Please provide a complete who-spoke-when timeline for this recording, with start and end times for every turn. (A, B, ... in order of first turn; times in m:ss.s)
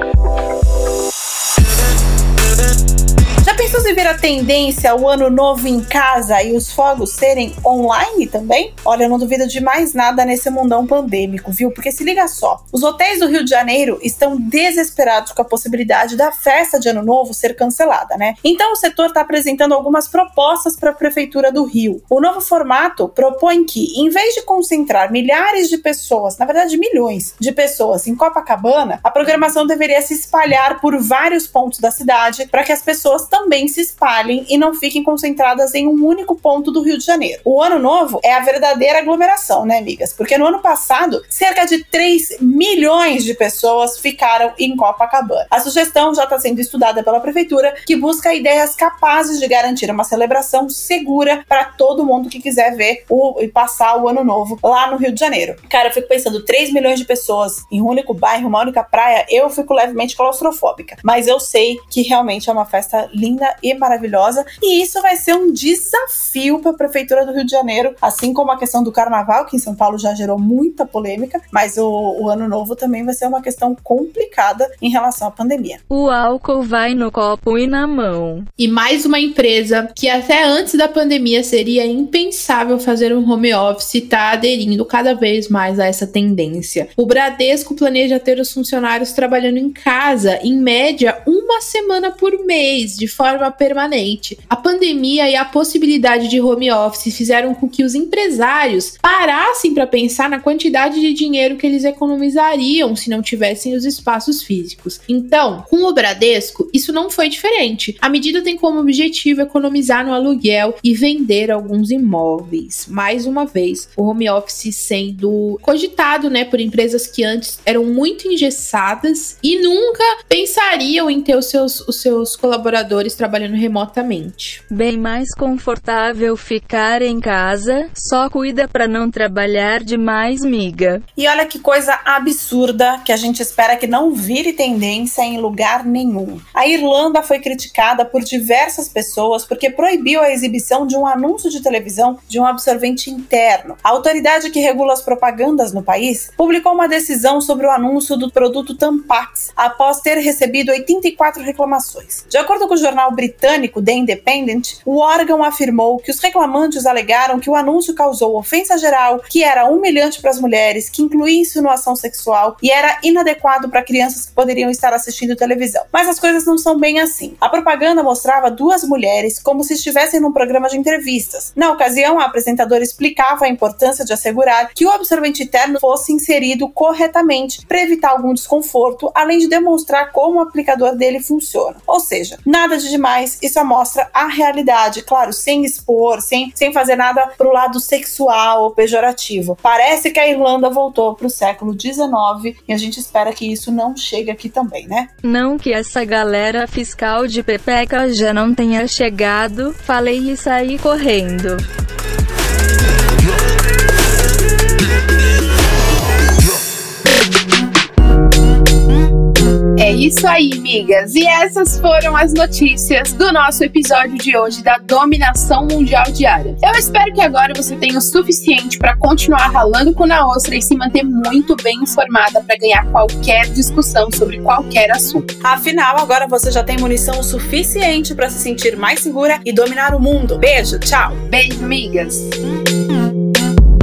0:03.4-1:15.8 A
1:15.9-1:18.5 B
1:18.6-2:04.6 C
2:04.7-2:11.0 B
2:11.2-3:15.1 A
3:15.2-3:21.6 B
3:29.8-3:45.3 C
3:45.4-3:51.2 A
3:51.3-3:52.4 C